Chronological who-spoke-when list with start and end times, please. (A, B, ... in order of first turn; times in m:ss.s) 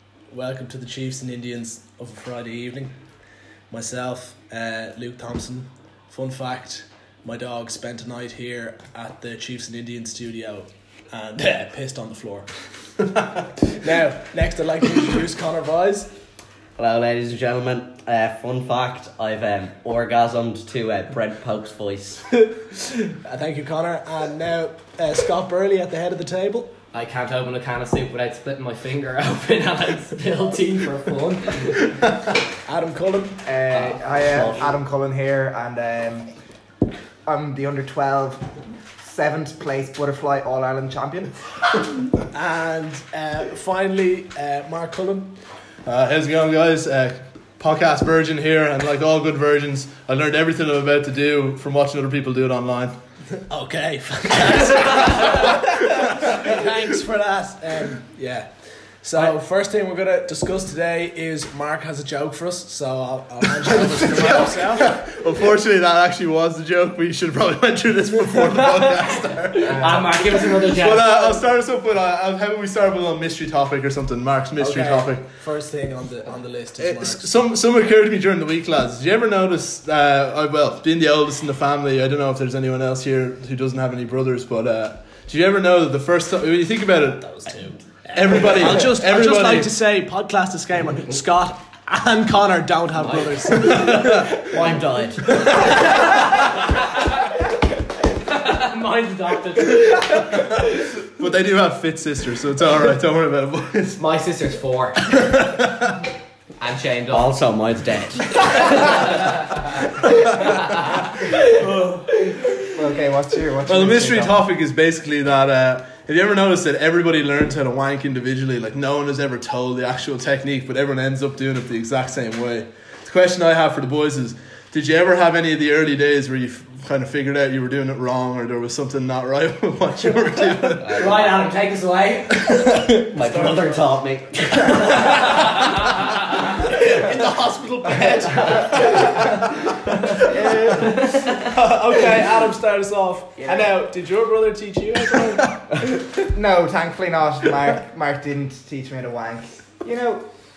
0:00.3-0:02.9 A
0:03.7-0:12.5 A
0:13.1-0:13.4 B
0:13.7-0:16.1 A
0:16.8-0:22.2 C
0:22.3-0:26.7 A
0:26.9-0:31.8 D
0:32.6-0:33.4 A
0:33.4-0:36.3 E
0:33.7-0:34.6 D
0:37.2-0:41.5 E
0:42.3-0:45.3 A
0:45.8-0:52.9 B
0:53.5-0:58.5 A
0:54.9-0:56.7 B
0:59.0-1:04.9 A
1:03.6-1:15.2 B
1:09.5-1:11.4 D
1:09.6-1:10.1 E
1:14.6-1:17.3 A
1:16.8-1:27.5 B
1:27.2-1:34.3 A
1:28.1-1:29.7 B
1:33.5-1:34.5 B
1:33.8-1:36.1 C
1:35.4-1:35.7 A
1:36.9-1:37.3 D
1:38.2-1:40.5 D
1:40.2-1:44.0 B
1:44.0-1:45.0 D
1:45.1-1:46.0 B
1:46.6-1:47.4 D
1:47.1-1:49.3 C
1:50.0-1:52.1 B
1:50.4-1:50.7 D
1:52.5-1:54.4 E
1:53.6-2:11.1 B
2:10.8-2:11.4 C
2:10.9-2:12.6 D
2:12.5-2:12.9 B
2:12.7-2:15.7 C
2:13.2-2:13.8 A
2:15.0-2:15.5 A
2:16.5-2:25.6 A
2:18.5-2:19.3 E
2:18.9-2:19.2 B
2:20.1-2:21.1 E
2:20.6-2:21.5 D
2:25.9-2:30.2 E